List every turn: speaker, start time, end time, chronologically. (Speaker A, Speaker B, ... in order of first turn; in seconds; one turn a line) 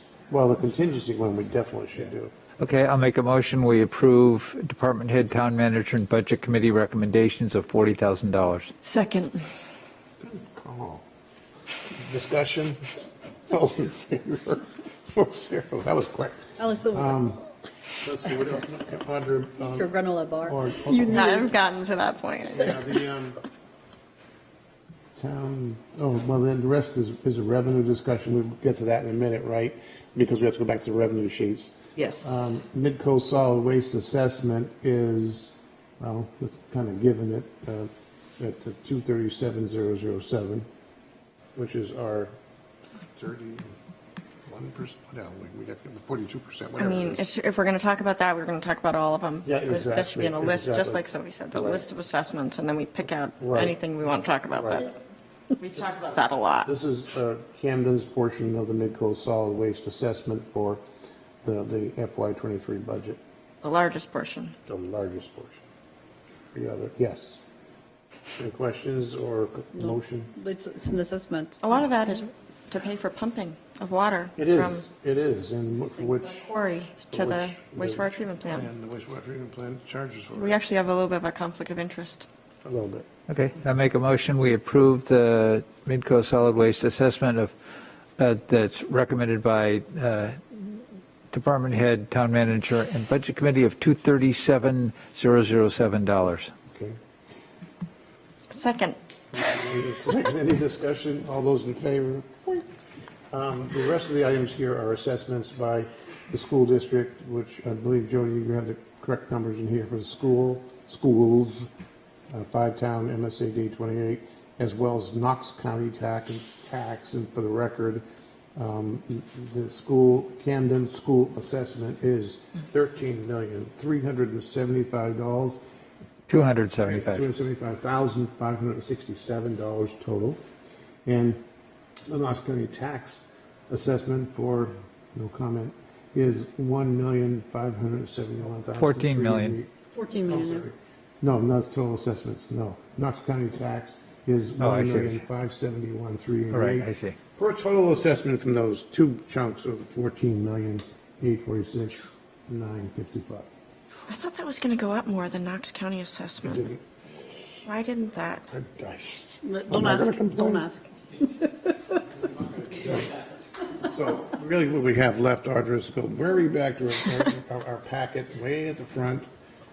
Speaker A: 0.3-2.3
Speaker B: 2.6-8.7
Speaker C: 8.8-9.4
Speaker A: 10.2-11.0
Speaker A: 11.9-12.8
Speaker A: 13.5-17.4
Speaker D: 16.6-17.1
Speaker A: 18.0-19.9
Speaker D: 19.8-20.5
Speaker A: 20.4-21.5
Speaker C: 20.9-22.8
Speaker A: 22.5-23.4
Speaker A: 25.2-40.6
Speaker A: 41.5-42.3
Speaker A: 43.0-43.7
Speaker A: 44.5-47.3
Speaker C: 46.8-54.9
Speaker A: 49.4-51.8
Speaker A: 53.4-53.8
Speaker A: 54.5-54.8
Speaker C: 55.6-56.7
Speaker A: 56.6-60.8
Speaker A: 61.4-63.2
Speaker C: 63.6-64.5
Speaker A: 64.7-65.6
Speaker A: 66.5-67.4
Speaker A: 68.3-70.3
Speaker D: 70.5-71.5
Speaker C: 71.6-74.8
Speaker A: 74.4-76.5
Speaker C: 76.3-78.7
Speaker A: 77.1-80.6
Speaker C: 80.3-82.3
Speaker A: 82.6-83.1
Speaker B: 83.3-87.5
Speaker B: 88.2-96.5
Speaker A: 96.7-97.0
Speaker C: 98.5-99.0
Speaker A: 99.3-102.7
Speaker A: 103.3-111.7
Speaker A: 112.3-118.0
Speaker A: 118.5-125.6
Speaker B: 126.3-127.3
Speaker A: 126.8-130.4
Speaker A: 131.0-131.4
Speaker A: 132.1-139.7
Speaker B: 138.8-139.6
Speaker D: 139.9-140.6
Speaker A: 140.2-153.5
Speaker B: 144.6-145.2
Speaker B: 146.5-147.2
Speaker C: 154.1-156.7
Speaker A: 156.4-156.8
Speaker C: 157.6-158.4
Speaker A: 158.5-160.6
Speaker D: 159.5-160.9
Speaker A: 162.2-169.2